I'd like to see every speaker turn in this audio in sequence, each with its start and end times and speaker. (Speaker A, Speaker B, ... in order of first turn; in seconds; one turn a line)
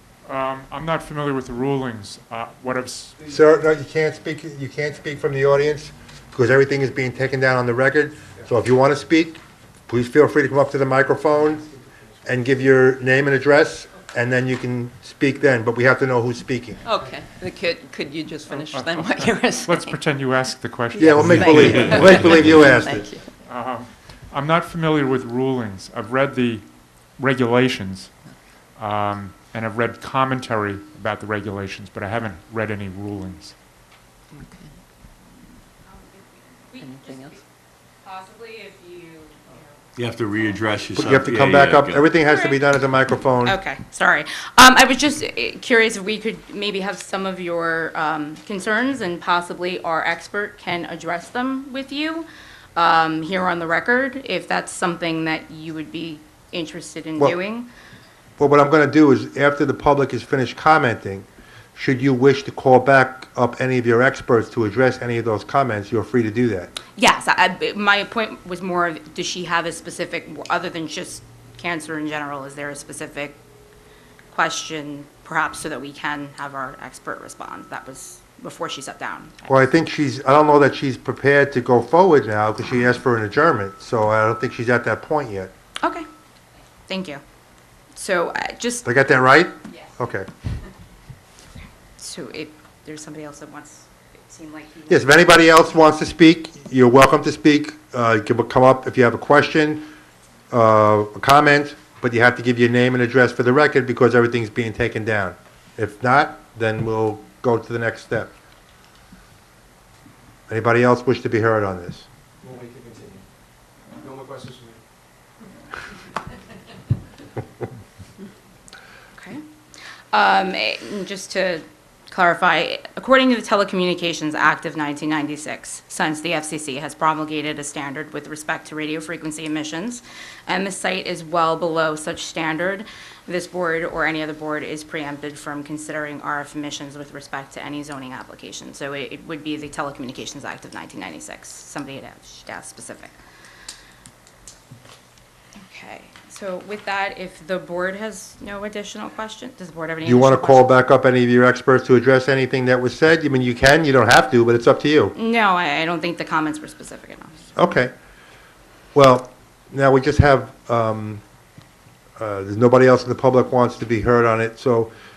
Speaker A: 0.2-3.1
Speaker B: 3.2-3.4
Speaker C: 3.3-11.6
Speaker B: 11.2-12.6
Speaker C: 12.2-16.8
Speaker D: 16.8-20.0
Speaker A: 18.5-22.3
Speaker D: 20.9-23.3
Speaker C: 20.9-23.1
Speaker E: 21.3-21.9
Speaker A: 23.4-33.5
Speaker D: 34.3-34.7
Speaker F: 35.9-37.4
Speaker D: 36.8-37.4
Speaker F: 38.0-39.8
Speaker E: 40.0-42.1
Speaker C: 40.9-43.6
Speaker F: 42.2-42.6
Speaker F: 43.4-57.7
Speaker C: 58.4-66.7
Speaker F: 67.0-73.4
Speaker F: 74.3-79.4
Speaker C: 79.5-85.5
Speaker F: 86.8-87.2
Speaker F: 87.9-88.8
Speaker C: 88.8-90.3
Speaker F: 92.0-95.4
Speaker C: 94.9-99.8
Speaker C: 100.5-108.3
Speaker C: 110.5-112.0
Speaker B: 112.4-113.2
Speaker B: 114.0-114.8
Speaker F: 119.2-119.4
Speaker F: 120.1-143.1
Speaker F: 145.6-150.7
Speaker C: 150.0-155.1
Speaker F: 155.1-157.4
Speaker C: 157.6-157.9
Speaker C: 158.9-161.2
Speaker C: 162.2-164.9